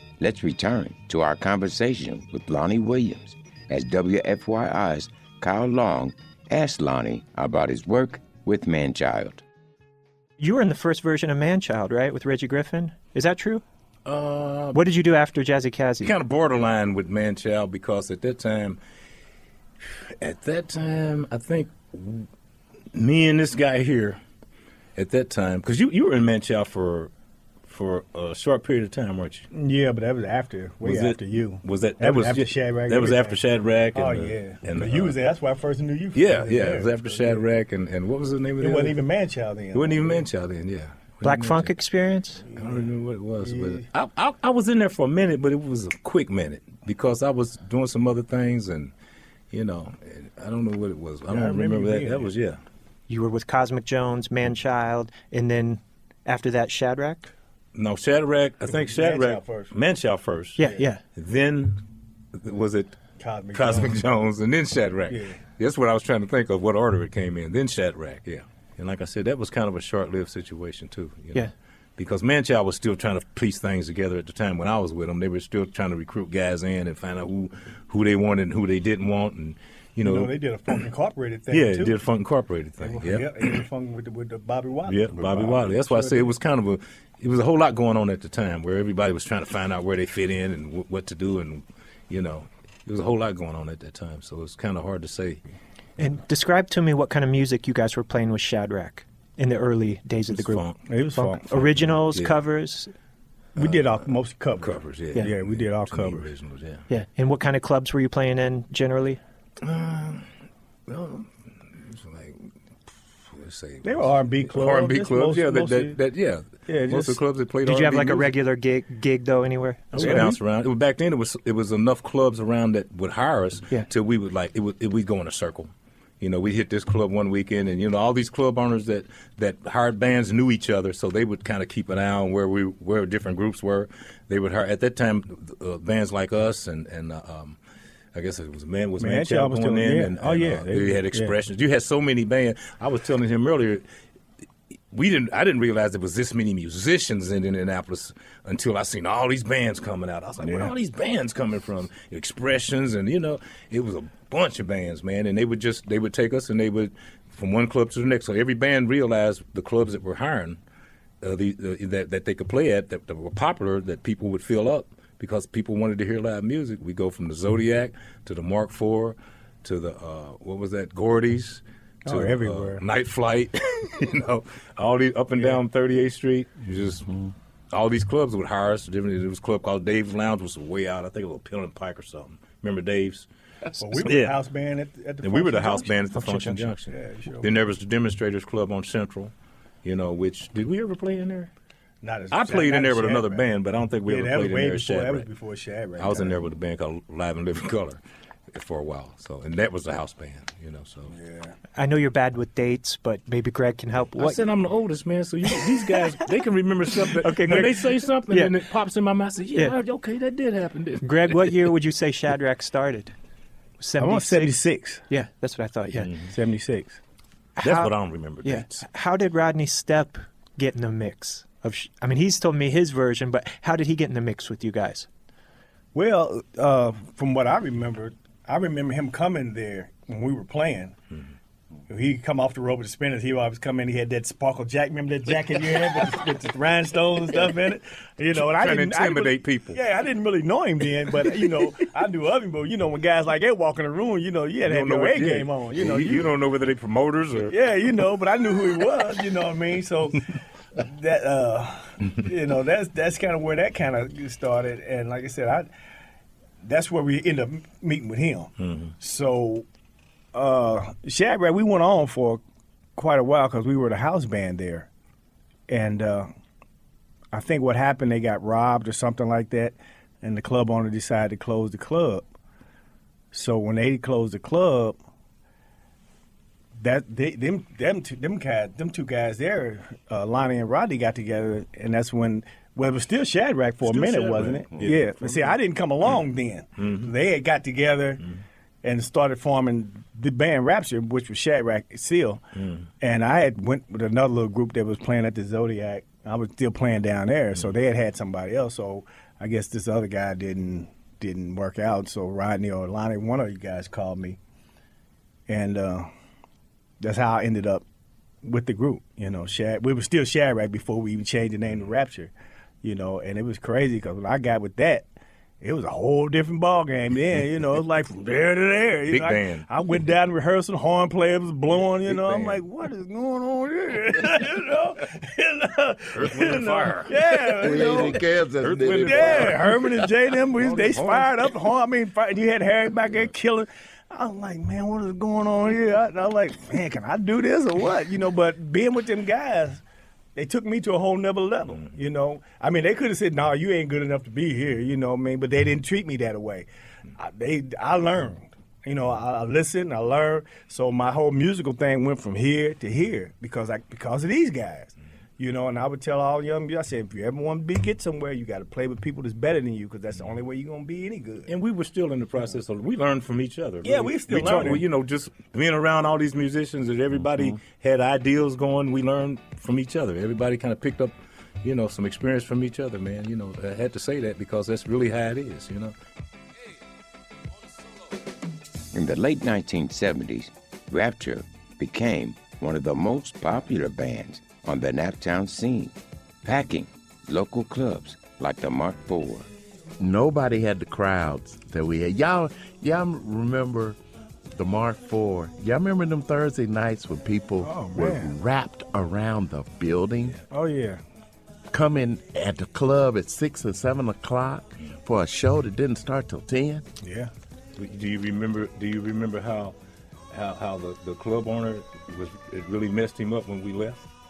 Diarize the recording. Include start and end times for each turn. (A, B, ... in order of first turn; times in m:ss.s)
0:00.2-0:09.4 A
0:10.4-0:13.6 B
0:14.1-0:14.8 C
0:14.7-0:16.1 B
0:16.0-0:18.8 C
0:20.2-0:22.3 C
0:22.9-0:24.2 C
0:25.0-0:27.1 C
0:27.7-0:29.5 C
0:29.5-0:37.5 D
0:30.8-0:35.2 C
0:36.2-0:39.0 C
0:38.6-0:40.3 D
0:39.7-0:41.7 C
0:41.2-0:42.5 B
0:42.5-0:42.9 D
0:42.5-0:48.9 C
0:43.4-0:43.8 D
0:49.5-0:52.6 C
0:51.3-0:52.3 D
0:53.1-0:57.3 B
0:57.8-1:01.8 C
0:58.7-0:59.7 D
1:00.6-1:01.0 B
1:00.6-1:00.9 D
1:02.4-1:03.0 C
1:03.2-1:04.0 D
1:03.5-1:20.3 C
1:05.1-1:05.4 D
1:20.0-1:22.0 D
1:21.5-1:23.6 C
1:22.8-1:26.4 D
1:24.9-1:35.4 C
1:36.0-1:42.9 B
1:40.2-1:42.4 C
1:40.9-1:41.4 D
1:43.6-1:46.3 D
1:43.6-1:44.0 C
1:44.6-1:46.8 C
1:46.9-1:49.2 B
1:49.6-1:50.3 C
1:50.9-1:58.3 C
1:53.8-1:56.0 D
1:56.7-1:57.2 D
1:57.6-2:00.3 B
1:59.9-2:17.6 C
2:00.0-2:00.3 D
2:18.1-2:23.8 C
2:19.0-2:21.4 D
2:24.9-2:40.6 C
2:30.4-2:30.7 D
2:41.2-2:57.1 C
2:52.0-2:52.8 D
2:57.7-3:03.3 C
3:03.8-3:06.2 D
3:04.0-3:04.4 C
3:05.2-3:09.3 C
3:06.2-3:06.7 B
3:06.8-3:07.5 D
3:09.8-3:11.5 C
3:12.0-3:13.5 D
3:12.3-3:15.3 C
3:14.0-3:16.4 D
3:16.0-3:18.0 C
3:18.5-3:21.2 C
3:21.1-3:21.6 D
3:21.8-3:24.4 B
3:24.2-3:31.6 C
3:27.2-3:27.8 B
3:27.4-3:27.7 D
3:31.0-3:33.1 B
3:33.8-3:36.1 B
3:34.0-3:35.0 D
3:35.9-3:36.4 C
3:36.3-3:37.0 D
3:37.6-3:45.1 B
3:37.6-3:38.8 C
3:45.9-3:51.0 D
3:51.9-4:06.3 D
3:58.3-3:59.8 C
4:04.7-4:07.6 C
4:07.4-4:10.2 D
4:10.8-4:15.7 D
4:16.6-4:19.6 D
4:18.6-4:18.9 C
4:20.3-4:22.4 D
4:23.0-4:24.9 D
4:25.7-4:26.3 D
4:27.3-4:32.3 D
4:33.3-4:35.0 D
4:36.8-4:48.2 D
4:43.8-4:46.2 C
4:46.8-4:47.1 C
4:48.8-4:52.4 D
4:52.6-4:52.9 C
4:53.0-5:04.4 D
5:05.5-5:06.1 D
5:07.0-5:07.8 D
5:08.4-5:12.3 D
5:12.8-5:15.1 D
5:15.6-5:28.3 D
5:19.1-5:19.7 C
5:21.7-5:22.6 C
5:26.2-5:29.8 C
5:27.6-5:30.1 E
5:28.9-5:39.8 D
5:30.6-5:31.5 C
5:40.4-6:01.5 D
6:01.5-6:16.0 C
6:03.8-6:04.9 D
6:18.9-6:29.5 A
6:30.0-6:34.0 E
6:34.5-6:40.4 E
6:37.6-6:38.3 D
6:40.5-6:41.0 D
6:41.7-6:46.8 E
6:47.0-6:47.3 D
6:47.8-6:49.8 C
6:50.3-6:54.1 C